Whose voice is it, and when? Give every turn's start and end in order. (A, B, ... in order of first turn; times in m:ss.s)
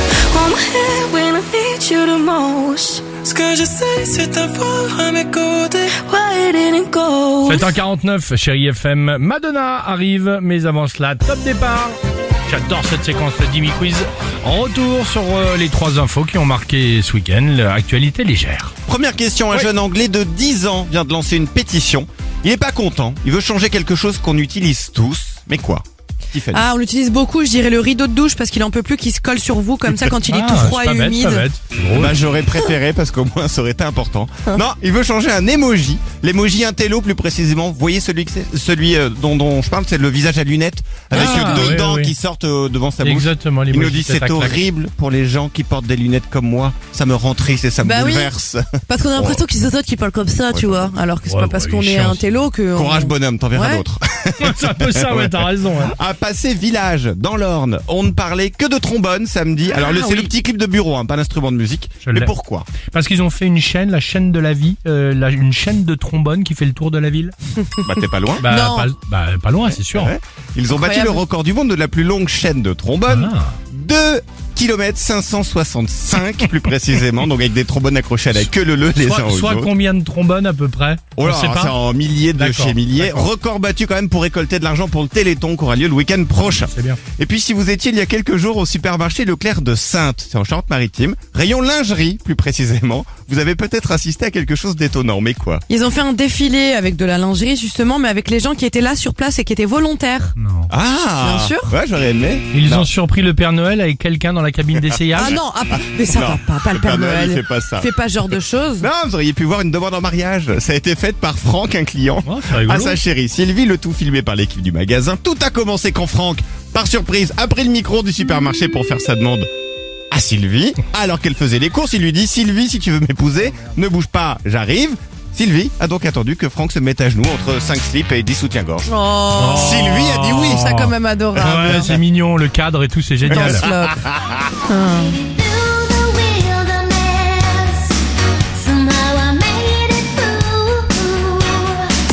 0:00.3-0:03.1 A
0:03.2-0:05.9 B
0:05.9-0:07.7 A
0:07.4-0:18.7 C
0:18.8-0:26.7 D
0:26.5-0:31.4 E
0:30.3-0:32.2 C
0:32.0-0:49.4 D
0:41.1-0:41.7 E
0:41.1-0:42.1 C
0:43.0-0:44.6 C
0:47.8-0:48.3 E
0:48.8-0:53.8 E
0:50.5-0:50.9 D
0:51.2-0:52.2 C
0:52.7-1:02.7 D
0:54.4-0:56.0 C
0:59.7-1:00.3 E
1:02.0-1:02.3 C
1:02.9-1:07.3 C
1:07.8-1:08.4 D
1:07.9-1:08.9 E
1:08.4-1:10.1 C
1:09.9-1:19.7 D
1:10.7-1:11.2 E
1:13.1-1:13.5 C
1:18.3-1:21.8 C
1:21.2-1:35.6 D
1:22.4-1:23.3 C
1:26.4-1:27.0 C
1:35.7-1:40.3 E
1:40.4-1:40.7 C
1:40.7-1:42.9 D
1:41.2-1:41.7 E
1:42.5-1:45.4 C
1:44.8-1:47.9 D
1:45.2-1:48.9 E
1:48.8-1:59.5 D
1:52.2-1:53.0 C
2:00.1-2:08.9 D
2:08.8-2:11.9 E
2:09.4-2:13.7 C
2:09.5-2:10.7 D
2:11.3-2:12.0 D
2:13.2-2:14.4 D
2:13.3-2:14.0 E
2:14.7-2:15.2 E
2:15.2-2:17.9 F
2:18.6-2:21.7 F